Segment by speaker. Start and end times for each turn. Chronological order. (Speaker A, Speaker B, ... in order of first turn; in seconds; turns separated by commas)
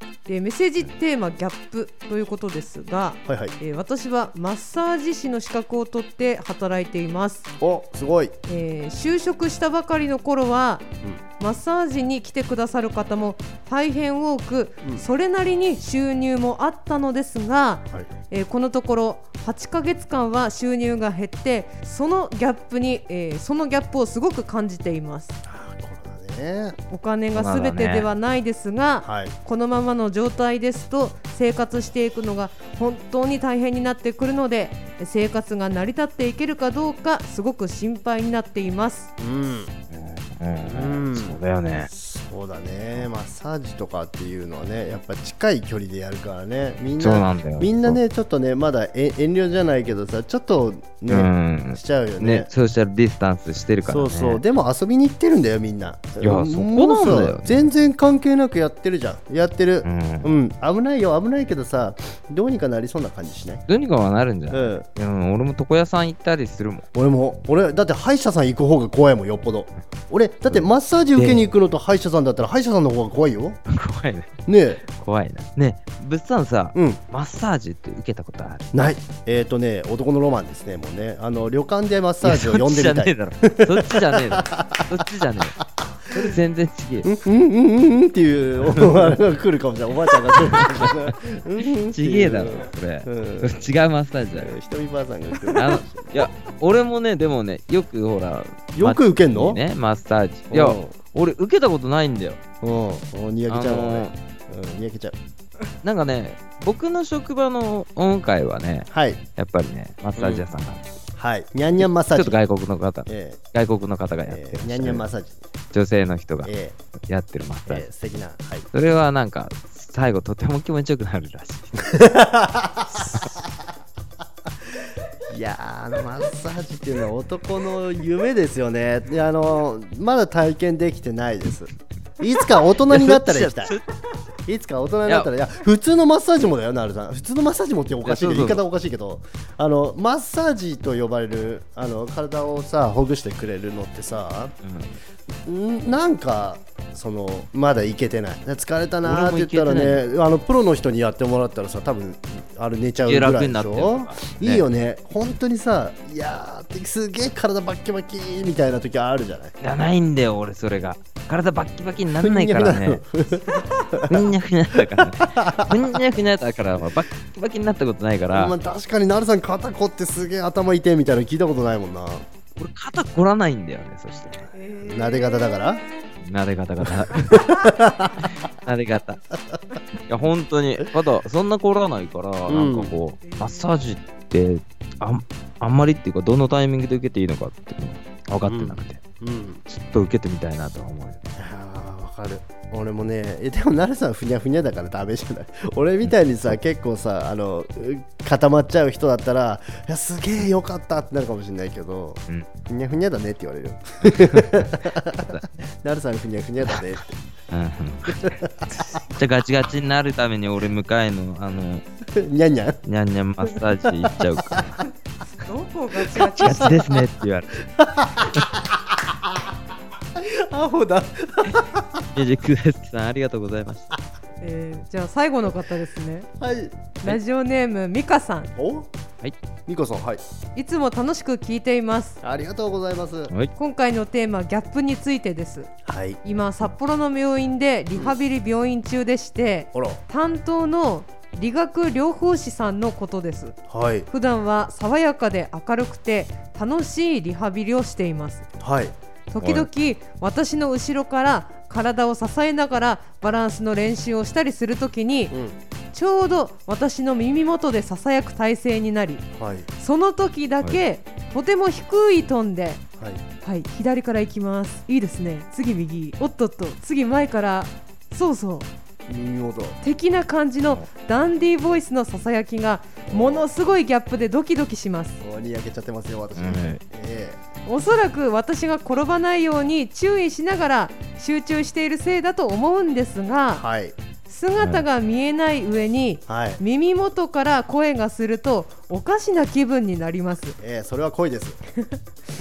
Speaker A: 0.2-7.5, Speaker B: 3.2-3.5, Speaker B: 7.6-8.3, Speaker A: 8.5-10.9, Speaker A: 11.4-25.4, Speaker B: 25.5-26.8, Speaker A: 26.9-39.1, Speaker C: 27.3-28.1, Speaker B: 29.0-29.3, Speaker B: 39.2-39.7, Speaker C: 39.9-41.9, Speaker B: 40.7-52.5, Speaker C: 47.0-48.0, Speaker C: 51.1-54.4, Speaker B: 53.9-63.6, Speaker C: 56.2-57.6, Speaker C: 59.8-60.3, Speaker C: 63.7-66.9, Speaker B: 64.5-64.8, Speaker B: 66.9-73.6, Speaker C: 70.5-71.5, Speaker C: 73.7-74.3, Speaker B: 74.5-74.8, Speaker C: 74.9-78.8, Speaker B: 76.8-77.0, Speaker B: 78.7-85.0, Speaker C: 82.2-85.6, Speaker B: 85.8-86.3, Speaker C: 86.1-87.1, Speaker B: 87.0-93.6, Speaker C: 88.6-89.2, Speaker C: 90.4-91.1, Speaker C: 91.9-94.5, Speaker B: 94.4-96.2, Speaker C: 95.5-102.4, Speaker B: 98.8-99.6, Speaker B: 100.5-101.0, Speaker B: 102.6-105.2, Speaker C: 103.5-104.1, Speaker C: 105.8-110.8, Speaker B: 108.9-109.2, Speaker B: 110.2-110.5, Speaker B: 111.2-112.4, Speaker C: 111.8-115.1, Speaker B: 113.1-113.4, Speaker B: 114.3-115.5, Speaker C: 115.7-116.5, Speaker B: 116.4-116.8, Speaker C: 117.1-117.9, Speaker B: 117.7-118.7, Speaker C: 118.7-122.0, Speaker B: 121.9-123.6, Speaker B: 125.3-133.7, Speaker C: 132.9-133.8, Speaker B: 134.5-144.5, Speaker C: 138.0-138.6, Speaker C: 144.6-144.9, Speaker B: 145.5-159.5, Speaker C: 149.0-150.0, Speaker C: 153.0-154.7, Speaker C: 159.6-163.0, Speaker B: 162.2-166.0, Speaker C: 164.1-168.5, Speaker B: 168.3-172.3, Speaker C: 172.6-174.5, Speaker A: 174.5-175.9, Speaker B: 174.8-175.8, Speaker C: 176.2-177.6, Speaker B: 176.8-178.3, Speaker C: 178.4-179.2, Speaker C: 180.1-189.0, Speaker B: 182.5-182.9, Speaker A: 183.2-183.8, Speaker B: 188.4-189.6, Speaker C: 189.7-191.4, Speaker B: 191.4-207.2, Speaker C: 204.0-205.6, Speaker C: 207.5-211.8, Speaker B: 208.1-209.0, Speaker B: 212.1-212.8, Speaker C: 212.9-214.8, Speaker B: 213.4-214.8, Speaker A: 215.3-216.8, Speaker C: 216.2-217.5, Speaker B: 216.4-217.0, Speaker B: 217.7-219.4, Speaker B: 220.2-222.0, Speaker C: 222.1-223.9, Speaker A: 224.4-226.3, Speaker B: 226.4-227.0, Speaker A: 227.0-228.5, Speaker B: 228.6-228.9, Speaker B: 229.7-230.2, Speaker A: 230.6-232.2, Speaker B: 232.2-233.3, Speaker A: 233.5-235.7, Speaker B: 235.8-236.2, Speaker A: 236.2-243.6, Speaker B: 239.7-240.0, Speaker B: 243.7-244.1, Speaker A: 244.1-248.5, Speaker B: 248.6-249.7, Speaker A: 249.3-255.4, Speaker B: 255.3-255.6, Speaker A: 255.9-259.2, Speaker B: 259.4-259.7, Speaker A: 259.8-262.8, Speaker A: 263.4-268.7, Speaker B: 269.1-269.8, Speaker A: 269.8-275.2, Speaker B: 273.1-273.5, Speaker B: 275.2-277.4, Speaker C: 276.4-276.8, Speaker A: 277.6-283.6, Speaker B: 283.6-284.0, Speaker A: 284.3-290.6, Speaker C: 284.6-284.8, Speaker B: 286.3-286.6, Speaker B: 290.6-291.6